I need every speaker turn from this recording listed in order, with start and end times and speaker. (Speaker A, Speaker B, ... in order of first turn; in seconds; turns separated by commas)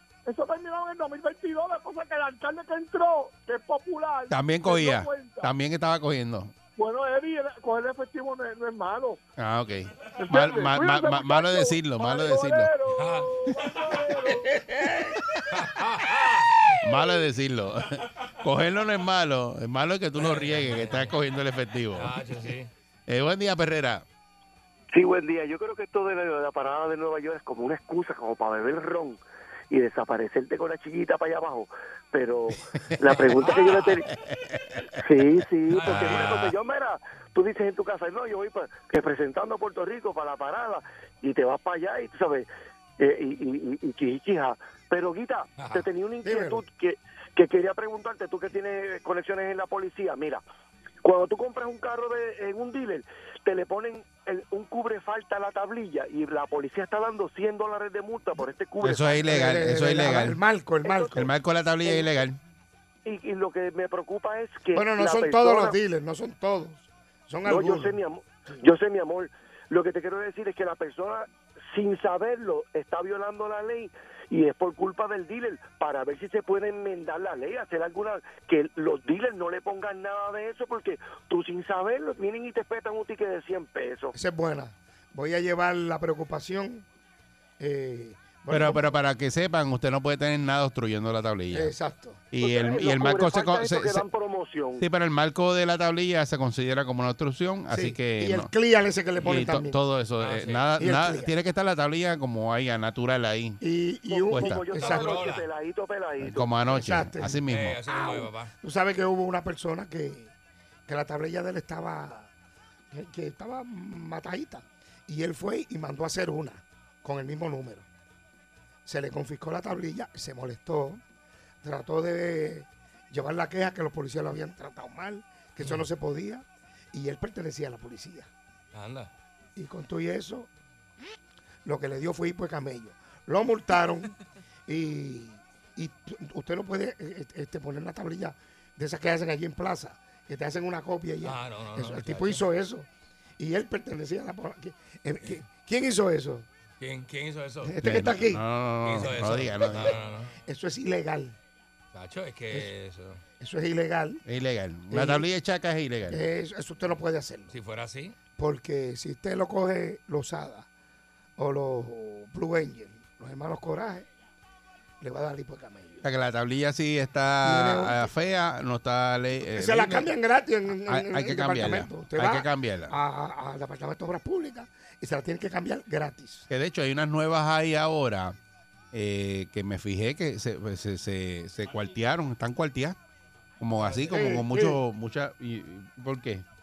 Speaker A: 0.2-5.5, Speaker B: 4.3-6.5, Speaker A: 6.8-9.2, Speaker B: 9.4-12.7, Speaker A: 10.2-14.5, Speaker C: 12.9-13.3, Speaker B: 13.5-13.8, Speaker D: 14.5-15.1, Speaker C: 15.5-16.8, Speaker B: 16.8-22.2, Speaker C: 20.1-21.1, Speaker C: 21.9-22.7, Speaker B: 23.1-24.0, Speaker E: 24.9-34.1, Speaker C: 33.1-34.0, Speaker B: 34.1-35.0, Speaker E: 35.0-42.5, Speaker C: 35.7-36.5, Speaker B: 35.7-36.5, Speaker E: 43.0-50.4, Speaker C: 45.6-45.9, Speaker D: 46.2-46.6, Speaker E: 51.0-60.0, Speaker B: 58.8-60.4, Speaker D: 59.2-61.3, Speaker E: 60.8-61.2, Speaker B: 61.1-62.4, Speaker E: 61.8-62.2, Speaker E: 63.0-65.8, Speaker D: 64.7-68.6, Speaker E: 67.4-84.1, Speaker D: 84.1-86.8, Speaker D: 87.6-89.0, Speaker B: 88.5-91.7, Speaker D: 91.5-92.2, Speaker B: 92.3-94.0, Speaker E: 92.4-94.8, Speaker B: 94.8-98.5, Speaker D: 97.7-99.8, Speaker B: 99.2-103.6, Speaker C: 100.2-100.7, Speaker D: 100.8-101.3, Speaker D: 103.6-105.3, Speaker E: 104.1-106.5, Speaker B: 104.3-104.7, Speaker C: 104.7-105.5, Speaker B: 106.2-107.8, Speaker D: 106.6-110.3, Speaker C: 107.5-108.5, Speaker D: 110.9-112.3, Speaker D: 112.9-117.9, Speaker D: 118.8-121.0, Speaker D: 121.6-128.3, Speaker C: 128.7-129.1, Speaker D: 129.6-130.5, Speaker D: 131.6-134.1, Speaker D: 134.7-142.9, Speaker C: 141.2-142.4, Speaker D: 143.4-146.5, Speaker C: 146.8-147.8, Speaker D: 147.6-148.4, Speaker B: 147.8-150.0, Speaker C: 148.8-150.3, Speaker D: 150.4-151.4, Speaker C: 151.9-153.2, Speaker D: 153.4-154.2, Speaker B: 154.2-156.2, Speaker D: 154.9-155.3, Speaker D: 156.1-157.6, Speaker C: 157.5-158.2, Speaker D: 158.4-160.7, Speaker D: 161.4-164.1, Speaker D: 165.0-166.0, Speaker B: 166.0-170.1, Speaker D: 167.4-168.1, Speaker D: 169.5-176.5, Speaker B: 170.8-172.9, Speaker B: 176.5-178.3, Speaker B: 178.9-183.0, Speaker B: 183.6-186.4, Speaker D: 184.1-184.8